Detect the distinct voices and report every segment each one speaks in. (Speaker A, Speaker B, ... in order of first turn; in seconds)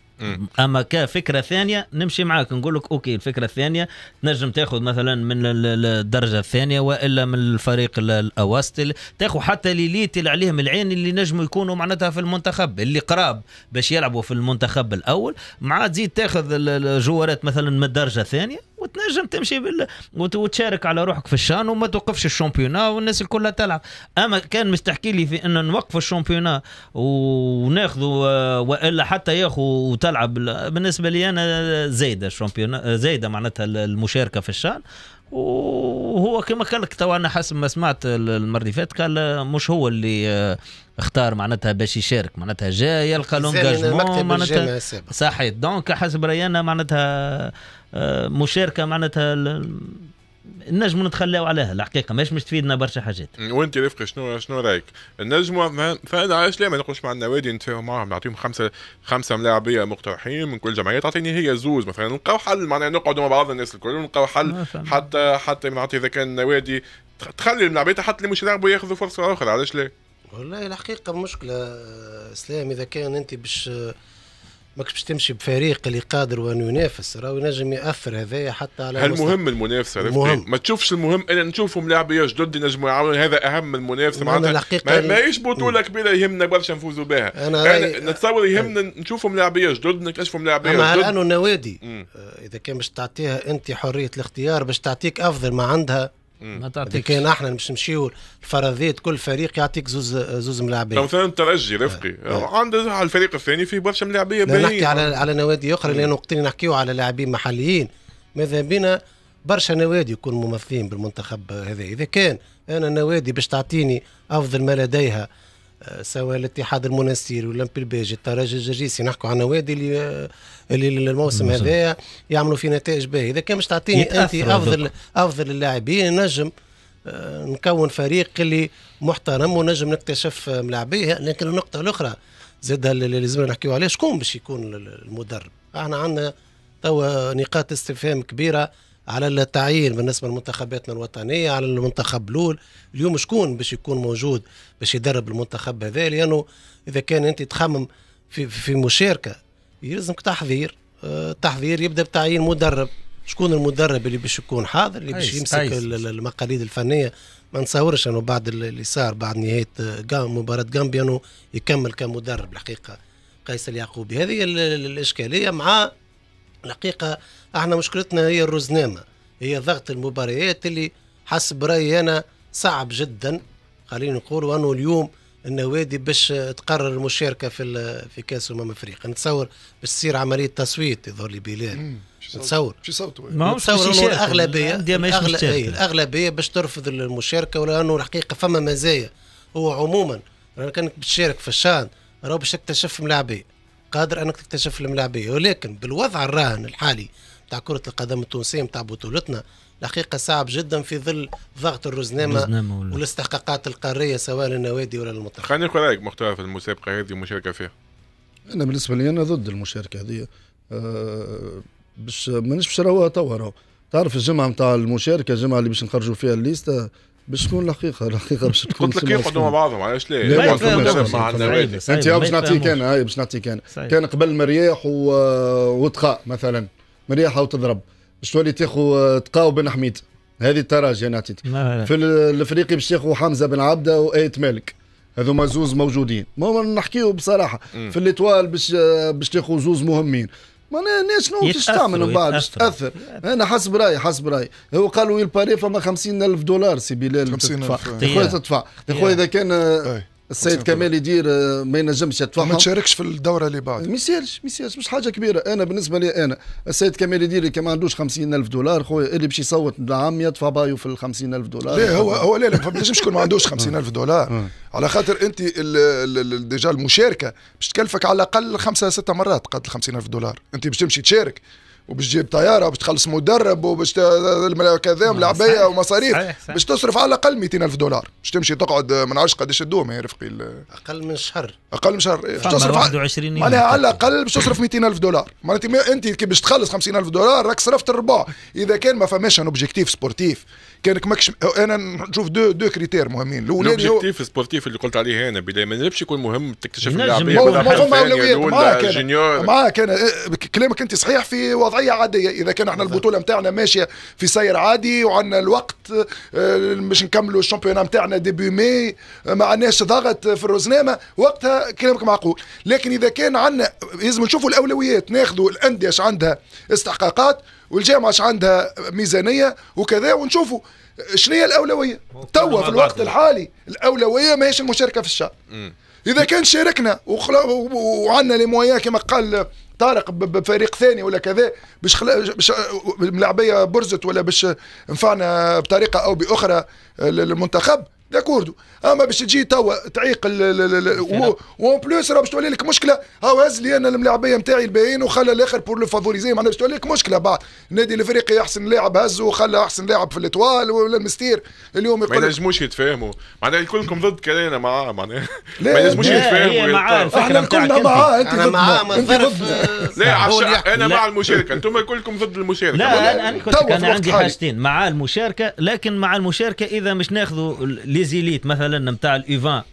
Speaker A: 0.3-50.1, 50.7-53.3, 64.5-65.0, 96.5-97.2, 121.3-121.7, 123.9-124.8, 155.1-155.9, 183.3-185.8, 202.2-203.0, 220.3-222.8, 231.4-231.9, 241.4-243.2, 248.0-249.2, 275.1-276.6, 282.4-284.1, 296.8-297.9, 322.1-323.1, 340.9-341.3, 355.9-358.1, 362.7-369.6
Speaker B: 43.3-45.1, 70.3-73.9, 74.8-79.4, 80.0-80.4, 84.1-85.7, 87.3-88.7, 90.6-96.1, 96.9-101.1, 104.5-115.3, 115.8-126.5, 127.0-136.3, 136.8-165.9, 166.6-181.8, 182.3-182.8, 183.4-205.5, 280.7-281.6, 358.2-360.9
Speaker C: 53.4-69.9, 78.9-91.1, 100.9-105.2, 205.4-207.7, 218.7-221.8, 293.6-299.5, 352.1-357.2, 360.0-363.4
Speaker D: 181.8-183.4, 247.3-248.1, 249.8-250.9, 252.4-253.9, 261.7-280.6, 281.7-294.0, 297.3-325.3, 326.1-352.3, 355.6-356.3, 357.1-360.2, 361.3-361.6, 362.8-364.3
Speaker E: 208.5-219.5, 220.2-252.7, 253.8-263.7